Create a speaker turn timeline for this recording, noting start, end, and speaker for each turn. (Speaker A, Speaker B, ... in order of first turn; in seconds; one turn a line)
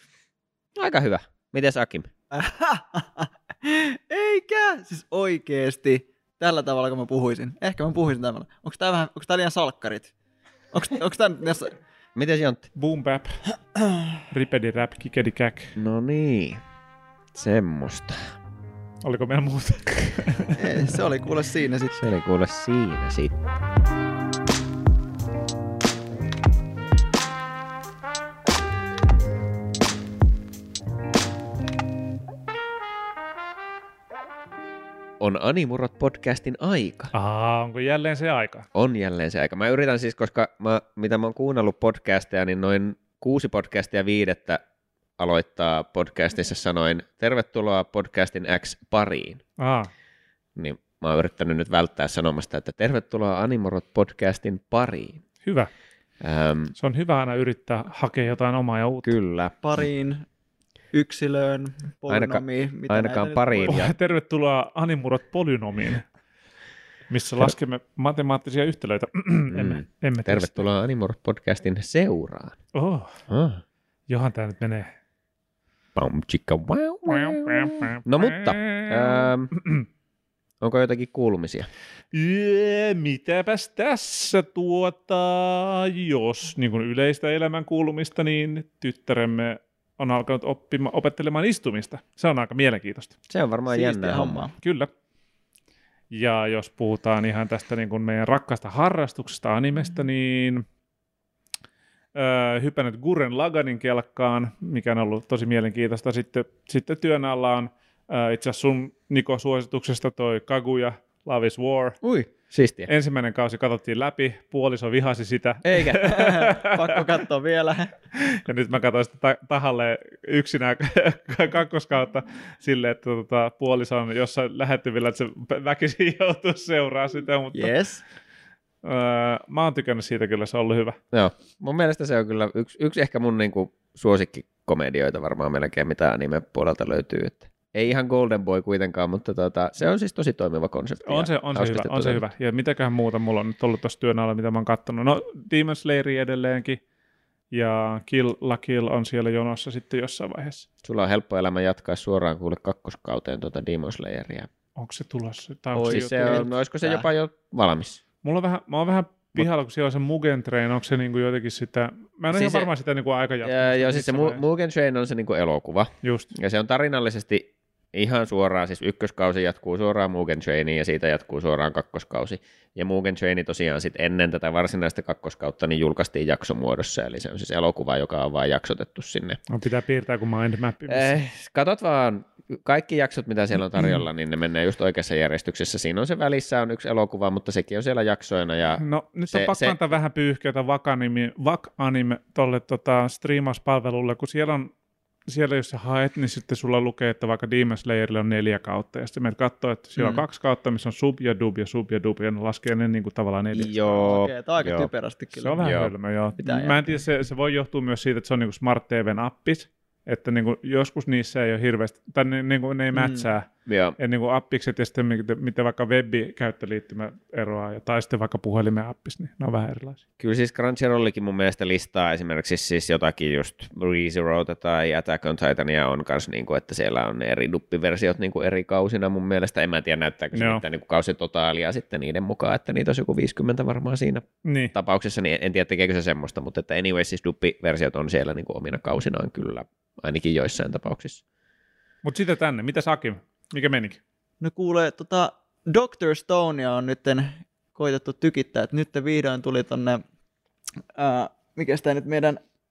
Speaker A: 0.8-2.1
Speaker B: 2.3-10.1
Speaker B: 10.7-11.7
Speaker A: 12.2-12.7
Speaker C: 12.7-13.4
Speaker B: 13.7-14.2
Speaker C: 14.3-15.8
Speaker A: 15.8-16.6
Speaker A: 17.3-18.3
Speaker C: 19.0-20.6
Speaker B: 20.5-22.0
Speaker A: 21.9-23.3
Speaker A: 35.2-37.1
Speaker C: 37.1-38.7
Speaker A: 38.7-44.6
Speaker A: 45.2-49.4
Speaker C: 49.6-49.9
Speaker A: 50.5-55.2
Speaker C: 55.4-55.7
Speaker A: 56.2-56.7
Speaker C: 56.8-59.1
Speaker A: 59.0-59.6
Speaker B: 59.6-60.3
Speaker B: 60.9-63.8
Speaker A: 62.1-63.9
Speaker C: 63.7-66.0
Speaker C: 67.1-70.7
Speaker A: 69.5-72.6
Speaker C: 72.7-73.2
Speaker A: 73.3-73.6
Speaker C: 74.1-74.9
Speaker A: 76.0-79.5
Speaker C: 77.1-79.9
Speaker A: 80.6-81.7
Speaker C: 82.1-93.1
Speaker A: 93.3-94.5
Speaker B: 93.7-94.5
Speaker C: 94.6-94.9
Speaker C: 96.1-100.7
Speaker C: 102.2-112.0
Speaker A: 112.0-112.9
Speaker C: 112.9-117.1
Speaker A: 115.6-116.3
Speaker B: 115.9-117.9
Speaker C: 118.2-127.8
Speaker B: 127.5-128.0
Speaker C: 128.8-131.0
Speaker A: 131.1-142.2
Speaker C: 141.0-146.8
Speaker C: 147.5-150.7
Speaker A: 150.8-154.5
Speaker C: 154.8-156.5
Speaker A: 155.7-158.0
Speaker B: 155.9-157.1
Speaker C: 158.2-164.4
Speaker A: 162.3-162.7
Speaker A: 163.4-179.4
Speaker C: 166.0-166.3
Speaker C: 179.5-181.1
Speaker A: 180.9-189.9
Speaker C: 188.8-194.7
Speaker C: 195.3-204.0
Speaker B: 200.0-200.2
Speaker A: 203.5-204.9
Speaker B: 203.9-205.6
Speaker C: 205.4-220.0
Speaker A: 205.6-205.9
Speaker B: 206.4-207.0
Speaker B: 212.9-213.3
Speaker A: 213.7-214.0
Speaker A: 220.2-241.2
Speaker C: 230.3-230.6
Speaker C: 234.4-234.7
Speaker C: 242.0-244.0
Speaker B: 244.4-250.0
Speaker B: 250.9-252.4